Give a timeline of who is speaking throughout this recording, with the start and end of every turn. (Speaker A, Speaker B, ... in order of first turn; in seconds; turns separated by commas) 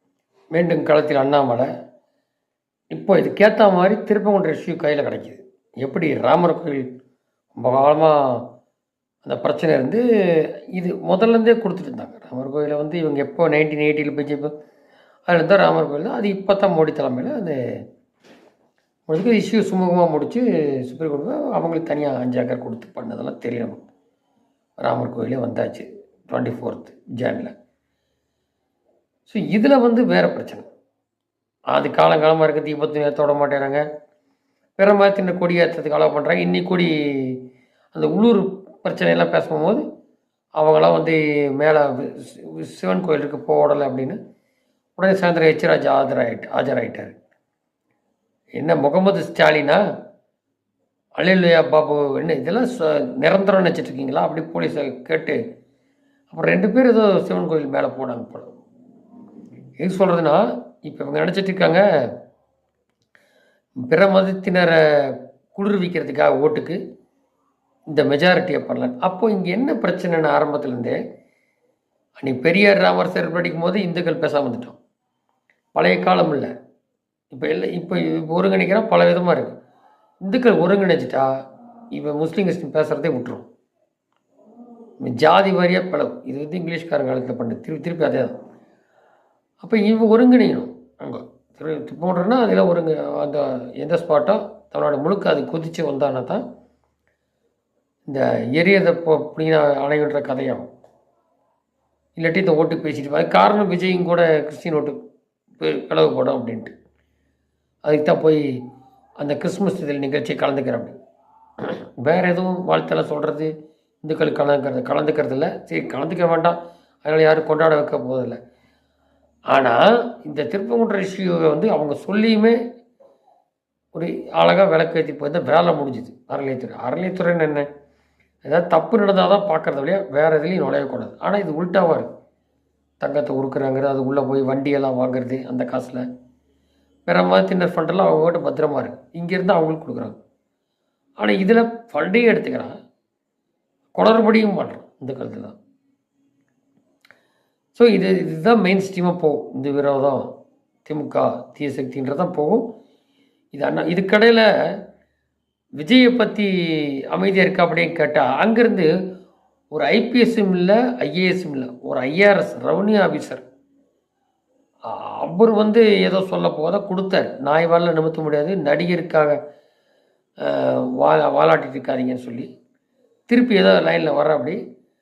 Speaker A: 0.6-1.7, Speaker A: 2.9-6.9, Speaker A: 7.6-8.4, Speaker A: 9.2-14.5, Speaker A: 15.3-17.6, Speaker A: 19.1-23.8, Speaker A: 24.8-27.5, Speaker A: 29.3-30.6, Speaker A: 31.7-33.8, Speaker A: 34.8-37.4, Speaker A: 37.9-39.8, Speaker A: 40.6-44.2, Speaker A: 45.0-47.1, Speaker A: 48.6-49.8, Speaker A: 51.2-55.4, Speaker A: 56.3-58.5, Speaker A: 59.8-61.8, Speaker A: 63.9-66.8, Speaker A: 67.9-71.0, Speaker A: 72.2-74.8, Speaker A: 75.8-76.5, Speaker A: 77.3-79.5, Speaker A: 80.2-81.3, Speaker A: 81.9-83.5, Speaker A: 85.0-88.3, Speaker A: 89.6-96.4, Speaker A: 98.1-100.7, Speaker A: 102.2-105.0, Speaker A: 105.6-106.7, Speaker A: 107.8-108.6, Speaker A: 109.2-111.0, Speaker A: 112.0-118.4, Speaker A: 119.5-122.6, Speaker A: 123.9-127.7, Speaker A: 128.4-132.1, Speaker A: 133.0-136.1, Speaker A: 137.1-140.2, Speaker A: 141.2-142.7, Speaker A: 143.9-145.6, Speaker A: 147.8-150.3, Speaker A: 150.8-152.7, Speaker A: 153.5-154.5, Speaker A: 155.8-158.9, Speaker A: 159.7-163.4, Speaker A: 164.9-169.4, Speaker A: 170.4-172.5, Speaker A: 173.3-174.6